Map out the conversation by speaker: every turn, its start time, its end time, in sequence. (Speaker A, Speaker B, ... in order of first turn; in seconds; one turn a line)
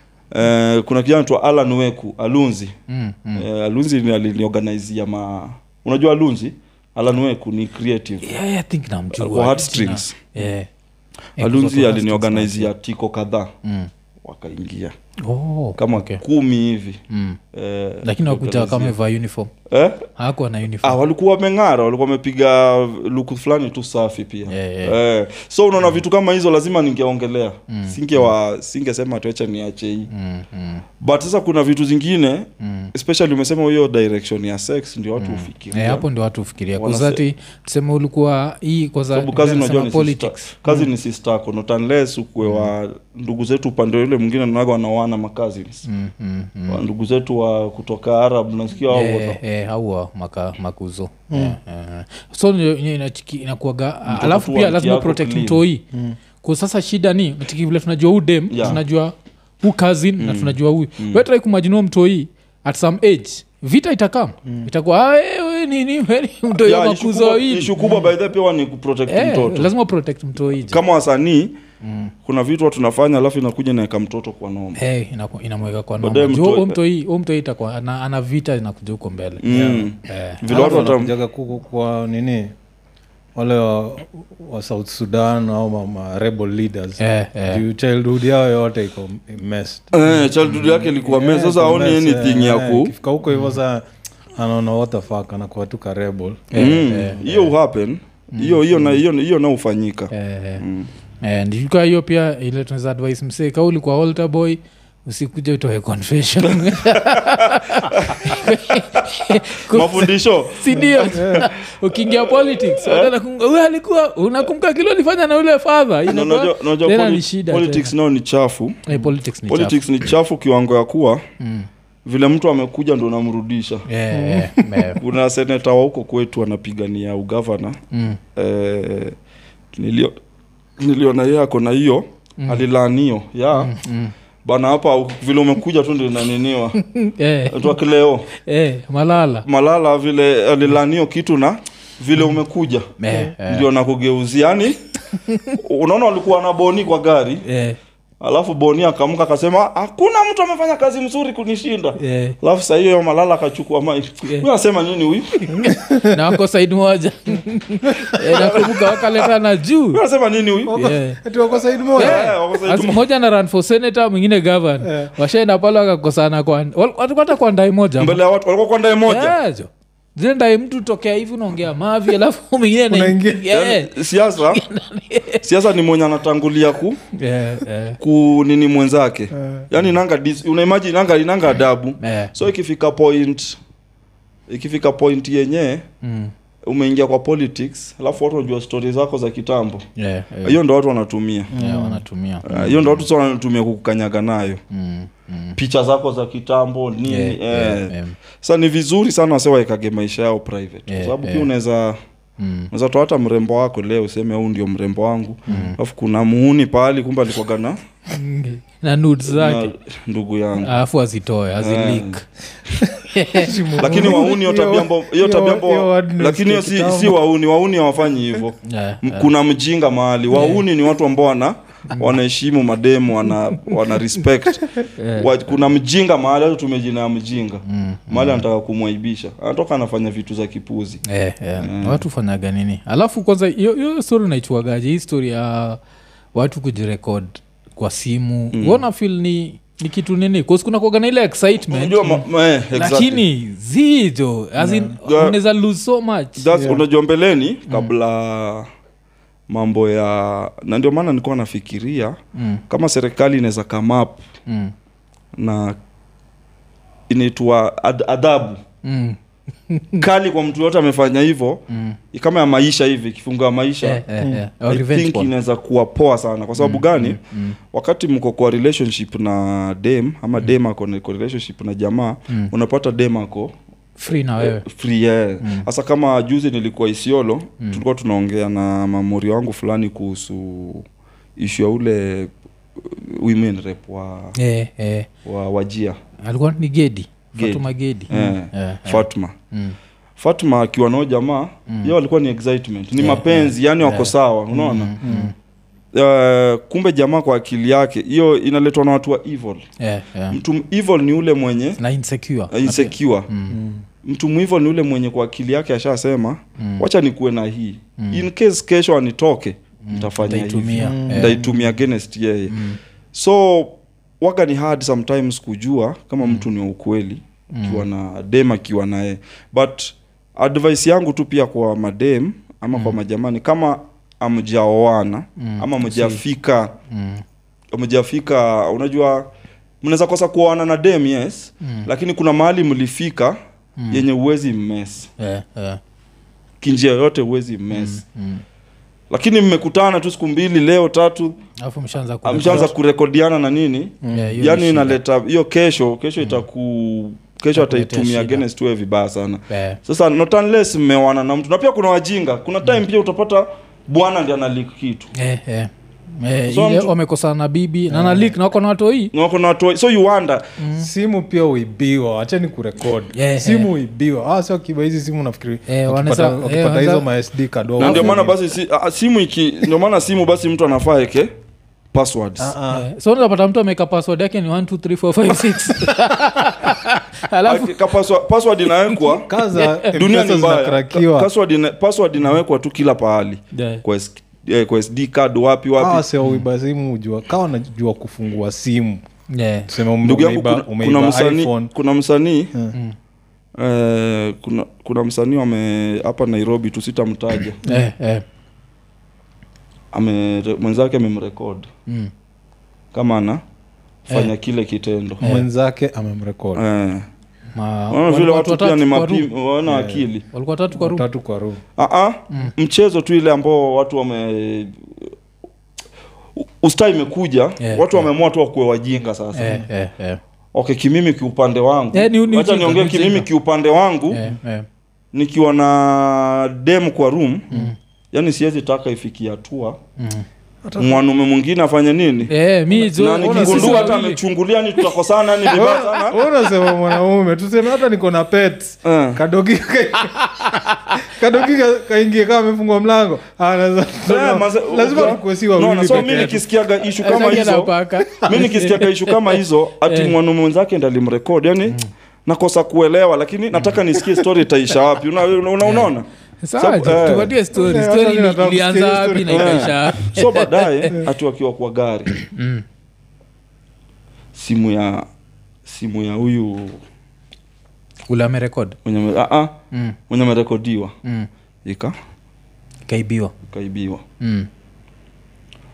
Speaker A: 0.3-2.7
Speaker B: 2.9-3.5
Speaker A: 3.4-8.3
Speaker B: 8.2-10.7
Speaker A: 9.1-10.2
Speaker B: 11.4-12.7
Speaker A: 11.4-13.5
Speaker B: 13.6-13.9
Speaker A: 14.2-14.9
Speaker B: 15.2-16.2
Speaker A: 15.8-17.0
Speaker B: 17.1-17.4
Speaker A: 17.5-18.9
Speaker B: 18.0-19.5
Speaker A: 19.7-20.0
Speaker B: 20.2-21.0
Speaker A: 20.8-30.1
Speaker B: 24.5-24.9
Speaker B: 27.7-28.3
Speaker B: 30.1-30.8
Speaker A: 31.0-36.0
Speaker B: 32.6-32.9
Speaker B: 35.2-40.9
Speaker A: 36.8-37.2
Speaker A: 39.1-45.9
Speaker B: 42.4-42.7
Speaker B: 45.9-46.8
Speaker A: 46.7-49.4
Speaker B: 48.9-55.8
Speaker C: 51.3-51.6
Speaker A: 54.1-55.6
Speaker B: 56.4-68.1
Speaker A: 58.5-58.8
Speaker A: 60.2-61.2
Speaker A: 66.5-69.7
Speaker B: 69.1-70.8
Speaker A: 70.7-71.6
Speaker B: 71.8-72.1
Speaker A: 72.2-74.8
Speaker B: 74.8-79.4
Speaker A: 76.0-76.8
Speaker A: 79.4-81.1
Speaker C: 79.5-79.9
Speaker B: 80.0-80.8
Speaker C: 80.4-82.5
Speaker C: 83.3-90.0
Speaker B: 87.0-87.6
Speaker A: 89.9-92.9
Speaker C: 90.7-93.8
Speaker B: 93.3-93.6
Speaker C: 94.3-97.0
Speaker B: 96.5-97.5
Speaker A: 96.5-100.9
Speaker B: 98.3-98.9
Speaker B: 100.1-100.6
Speaker B: 101.2-117.9
Speaker A: 106.6-108.4
Speaker A: 109.6-113.1
Speaker C: 110.8-111.5
Speaker A: 116.0-118.8
Speaker B: 118.9-119.8
Speaker A: 119.5-121.2
Speaker B: 121.4-121.7
Speaker A: 122.0-123.8
Speaker B: 123.9-125.0
Speaker C: 124.1-124.9
Speaker A: 125.0-127.8
Speaker B: 127.9-128.2
Speaker A: 128.3-129.1
Speaker A: 129.7-130.1
Speaker A: 130.8-133.7
Speaker B: 132.4-132.6
Speaker B: 133.5-134.1
Speaker A: 134.4-136.8
Speaker B: 136.8-137.7
Speaker A: 137.5-138.3
Speaker B: 138.4-139.4
Speaker A: 139.4-144.8
Speaker B: 143.0-143.7
Speaker B: 145.2-145.6
Speaker A: 145.5-147.4
Speaker B: 147.4-147.8
Speaker A: 148.2-155.6
Speaker B: 152.0-152.4
Speaker B: 155.4-160.0
Speaker C: 155.9-156.2
Speaker A: 158.2-159.3
Speaker A: 159.9-160.8
Speaker C: 160.7-162.4
Speaker B: 160.7-161.2
Speaker A: 161.9-163.0
Speaker B: 162.0-168.2
Speaker C: 164.8-165.1
Speaker A: 168.0-169.3
Speaker B: 169.0-175.4
Speaker C: 172.9-173.4
Speaker A: 173.5-174.6
Speaker A: 175.4-177.0
Speaker B: 177.1-178.0
Speaker A: 178.0-183.6
Speaker C: 179.3-179.7
Speaker B: 182.0-182.3
Speaker A: 184.5-185.8
Speaker B: 186.0-186.3
Speaker A: 186.7-189.8
Speaker B: 190.0-190.6
Speaker A: 190.4-191.5
Speaker C: 191.5-192.0
Speaker B: 191.5-193.0
Speaker A: 192.4-194.6
Speaker B: 194.7-195.6
Speaker A: 195.6-202.0
Speaker B: 197.1-198.2
Speaker B: 200.9-201.5
Speaker B: 202.4-202.7
Speaker A: 202.7-207.8
Speaker B: 205.5-205.8
Speaker B: 208.1-209.7
Speaker A: 209.2-210.8
Speaker B: 210.6-212.2
Speaker A: 211.6-212.2
Speaker C: 212.8-217.2
Speaker B: 213.0-214.1
Speaker A: 213.8-231.0
Speaker B: 218.6-219.3
Speaker B: 220.3-220.6
Speaker B: 225.0-225.3
Speaker B: 227.7-228.4
Speaker B: 231.1-235.8
Speaker A: 231.6-232.0
Speaker B: 236.3-246.5
Speaker A: 238.5-238.8
Speaker A: 241.7-243.2
Speaker C: 244.6-244.9
Speaker A: 245.0-245.4
Speaker A: 246.4-248.7
Speaker C: 246.5-246.8
Speaker A: 249.5-252.2
Speaker B: 252.3-252.6
Speaker A: 252.7-254.2
Speaker B: 254.5-254.7
Speaker A: 255.4-255.8
Speaker A: 257.1-258.6
Speaker B: 258.8-260.0
Speaker A: 260.0-264.0
Speaker B: 261.7-262.0
Speaker B: 263.8-265.3
Speaker A: 264.7-267.2
Speaker B: 266.6-267.6
Speaker A: 267.7-273.5
Speaker B: 274.0-274.6
Speaker A: 274.4-284.3
Speaker B: 275.4-275.7
Speaker B: 284.4-285.1
Speaker A: 285.2-286.0
Speaker B: 286.2-289.8
Speaker A: 287.4-289.3
Speaker A: 290.2-294.9
Speaker B: 291.7-291.9
Speaker B: 293.0-295.3
Speaker C: 295.0-295.3
Speaker A: 295.9-299.6
Speaker B: 299.8-300.4
Speaker A: 300.3-301.8
Speaker B: 301.8-303.6
Speaker A: 302.5-303.3
Speaker C: 303.5-303.8
Speaker A: 304.0-312.6
Speaker B: 306.6-306.8
Speaker B: 308.0-308.2
Speaker B: 309.8-311.4
Speaker C: 310.8-311.6
Speaker B: 312.5-312.8
Speaker A: 313.1-326.7
Speaker B: 317.5-317.9
Speaker B: 325.4-326.2
Speaker B: 326.9-327.2
Speaker A: 327.7-329.3
Speaker A: 329.8-333.4
Speaker B: 331.6-331.9
Speaker B: 333.8-334.0
Speaker A: 333.9-335.1
Speaker B: 335.2-335.8
Speaker A: 336.6-338.0
Speaker B: 337.7-338.4
Speaker A: 339.1-341.4
Speaker B: 341.6-342.7
Speaker A: 342.2-355.1
Speaker C: 344.0-344.4
Speaker B: 344.1-345.0
Speaker B: 347.5-348.4
Speaker B: 349.5-349.8
Speaker B: 355.1-359.1
Speaker A: 356.5-356.9
Speaker C: 357.9-358.3
Speaker A: 359.1-360.5
Speaker B: 360.6-360.9
Speaker C: 360.8-368.3
Speaker B: 363.1-363.7
Speaker B: 365.7-367.0
Speaker A: 367.8-371.3
Speaker B: 367.8-368.2
Speaker A: 371.9-372.5
Speaker C: 372.4-372.9
Speaker B: 372.7-377.9
Speaker A: 377.4-379.3
Speaker B: 378.9-379.9
Speaker C: 379.2-381.3
Speaker A: 379.9-386.0
Speaker B: 383.5-383.8
Speaker C: 385.8-389.0
Speaker B: 389.3-389.7
Speaker C: 389.7-391.7
Speaker A: 390.0-392.5
Speaker A: 393.6-397.6
Speaker B: 397.6-398.2
Speaker A: 399.9-401.7
Speaker A: 402.9-403.4
Speaker A: 404.1-405.2
Speaker B: 405.2-405.5
Speaker C: 405.2-406.6
Speaker A: 406.5-407.1
Speaker B: 407.5-409.3
Speaker A: 407.9-410.2
Speaker C: 409.6-410.1
Speaker B: 410.3-411.1
Speaker C: 410.7-411.6
Speaker A: 411.8-415.1
Speaker A: 416.4-419.6
Speaker B: 417.6-418.0
Speaker B: 419.3-420.2
Speaker A: 420.5-424.2
Speaker B: 421.9-423.3
Speaker B: 424.1-424.6
Speaker A: 425.1-427.5
Speaker A: 428.1-429.8
Speaker B: 430.0-430.2
Speaker C: 430.6-431.0
Speaker A: 430.8-436.2
Speaker B: 432.3-434.2
Speaker C: 432.8-434.0
Speaker C: 435.5-446.4
Speaker A: 438.8-439.2
Speaker B: 440.1-441.0
Speaker A: 444.1-456.1
Speaker B: 447.0-450.1
Speaker B: 455.6-460.9
Speaker A: 456.6-457.3
Speaker C: 457.5-459.8
Speaker A: 459.3-462.1
Speaker B: 462.1-462.6
Speaker A: 464.3-465.1
Speaker A: 465.6-466.8
Speaker B: 468.1-468.8
Speaker A: 468.8-469.5
Speaker B: 469.7-470.0
Speaker A: 470.1-470.9
Speaker A: 471.6-471.9
Speaker B: 472.9-473.3
Speaker A: 473.4-474.0
Speaker B: 474.2-474.5